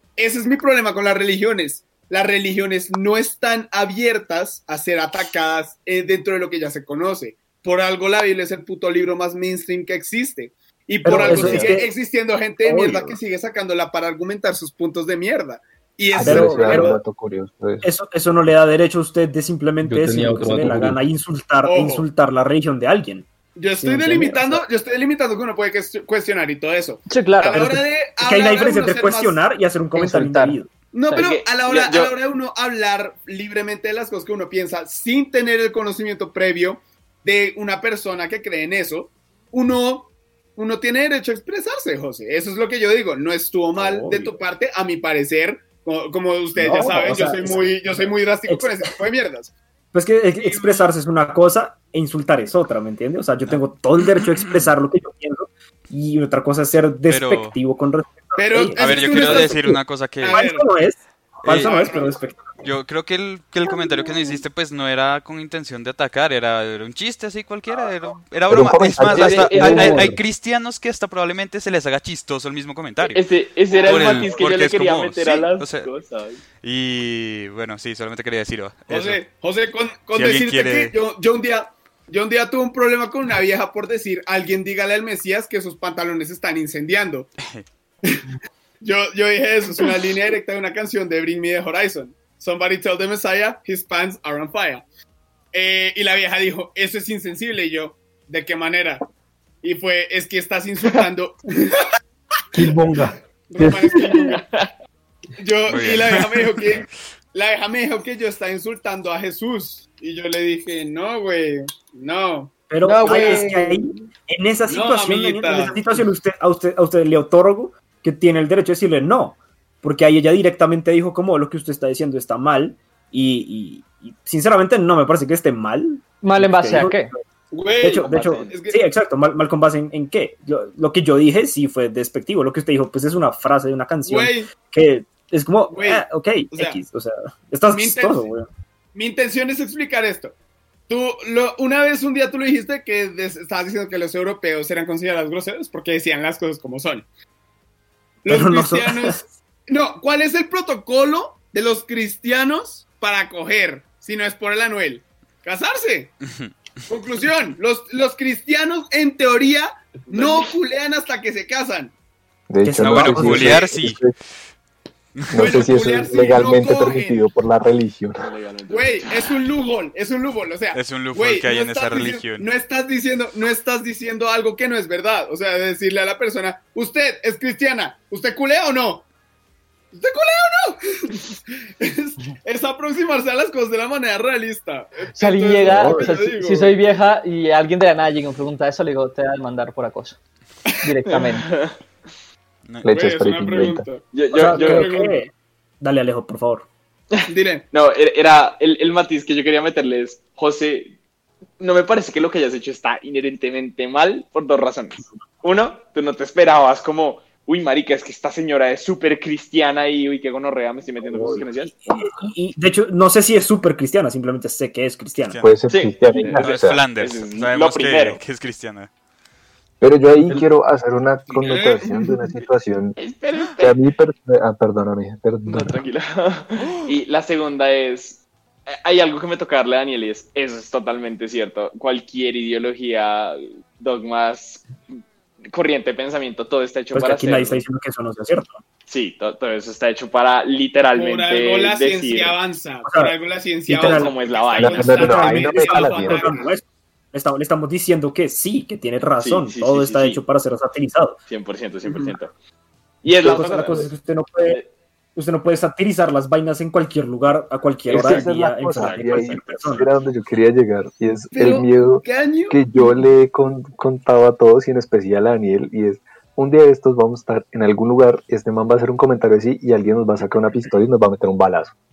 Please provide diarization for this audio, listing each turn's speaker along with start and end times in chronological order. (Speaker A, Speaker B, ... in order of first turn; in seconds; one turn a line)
Speaker A: 0.2-16.9
Speaker B: 11.0-11.9
Speaker B: 12.6-13.2
Speaker C: 16.1-17.9
Speaker B: 16.2-17.0
Speaker B: 17.8-23.3
Speaker D: 19.8-21.0
Speaker A: 21.6-22.1
Speaker A: 23.5-29.4
Speaker B: 23.8-24.6
Speaker E: 27.1-27.7
Speaker B: 27.5-30.7
Speaker E: 29.9-31.2
Speaker A: 30.9-49.5
Speaker F: 31.1-32.1
Speaker B: 43.8-44.4
Speaker B: 46.5-48.9
Speaker B: 49.9-62.6
Speaker A: 50.4-50.9
Speaker G: 54.2-54.6
Speaker G: 57.1-57.5
Speaker A: 58.4-60.7
Speaker G: 58.8-60.4
Speaker G: 61.4-61.8
Speaker A: 61.5-62.2
Speaker G: 62.6-73.2
Speaker C: 68.5-70.1
Speaker F: 69.0-70.0
Speaker D: 69.6-70.2
Speaker F: 73.1-76.4
Speaker A: 73.7-74.4
Speaker G: 73.9-75.9
Speaker G: 76.6-79.2
Speaker A: 78.9-87.3
Speaker G: 80.1-80.9
Speaker A: 88.0-88.3
Speaker A: 88.8-94.8
Speaker A: 95.5-99.0
Speaker A: 99.6-101.9
Speaker D: 102.6-103.1
Speaker A: 103.5-104.4
Speaker F: 104.1-104.7
Speaker A: 105.4-113.4
Speaker G: 105.7-106.5
Speaker B: 112.7-127.2
Speaker E: 112.8-113.8
Speaker A: 114.7-115.8
Speaker E: 126.2-127.1
Speaker A: 127.5-128.8
Speaker B: 127.8-138.5
Speaker F: 128.0-128.5
Speaker A: 134.0-134.5
Speaker A: 135.7-136.8
Speaker A: 137.7-138.3
Speaker A: 138.9-140.3
Speaker A: 140.9-147.1
Speaker A: 148.2-156.2
Speaker B: 148.3-149.2
Speaker G: 156.2-156.5
Speaker A: 156.9-161.9
Speaker F: 160.1-160.5
Speaker C: 162.5-164.1
Speaker B: 162.6-163.6
Speaker G: 162.8-164.0
Speaker G: 165.2-165.6
Speaker C: 165.3-168.2
Speaker A: 165.3-167.2
Speaker F: 168.2-169.3
Speaker A: 168.7-179.1
Speaker G: 170.7-172.5
Speaker A: 179.9-181.2
Speaker A: 181.8-186.8
Speaker E: 185.1-190.2
Speaker C: 185.7-186.1
Speaker E: 190.8-191.5
Speaker F: 191.1-191.8
Speaker C: 192.8-193.8
Speaker A: 192.9-195.2
Speaker F: 194.1-195.0
Speaker B: 194.3-196.7
Speaker A: 197.3-197.7
Speaker F: 197.7-200.9
Speaker F: 201.6-211.8
Speaker B: 211.0-215.4
Speaker G: 215.3-215.5
Speaker C: 215.4-216.8
Speaker F: 215.7-218.2
Speaker G: 216.3-218.9
Speaker C: 219.8-223.0
Speaker A: 221.3-222.2
Speaker F: 223.0-223.8
Speaker C: 223.6-225.8
Speaker F: 225.5-234.7
Speaker F: 235.5-237.6
Speaker B: 236.9-238.6
Speaker F: 238.9-242.4
Speaker A: 240.9-246.6
Speaker B: 242.8-243.1
Speaker B: 243.7-244.1
Speaker F: 243.8-245.0
Speaker C: 244.6-246.4
Speaker B: 244.8-251.2
Speaker F: 249.2-250.2
Speaker F: 251.3-252.3
Speaker A: 251.8-252.2
Speaker F: 253.0-254.7
Speaker B: 253.2-254.6
Speaker B: 255.1-259.9
Speaker F: 257.9-259.9
Speaker C: 257.9-271.7
Speaker A: 261.3-262.6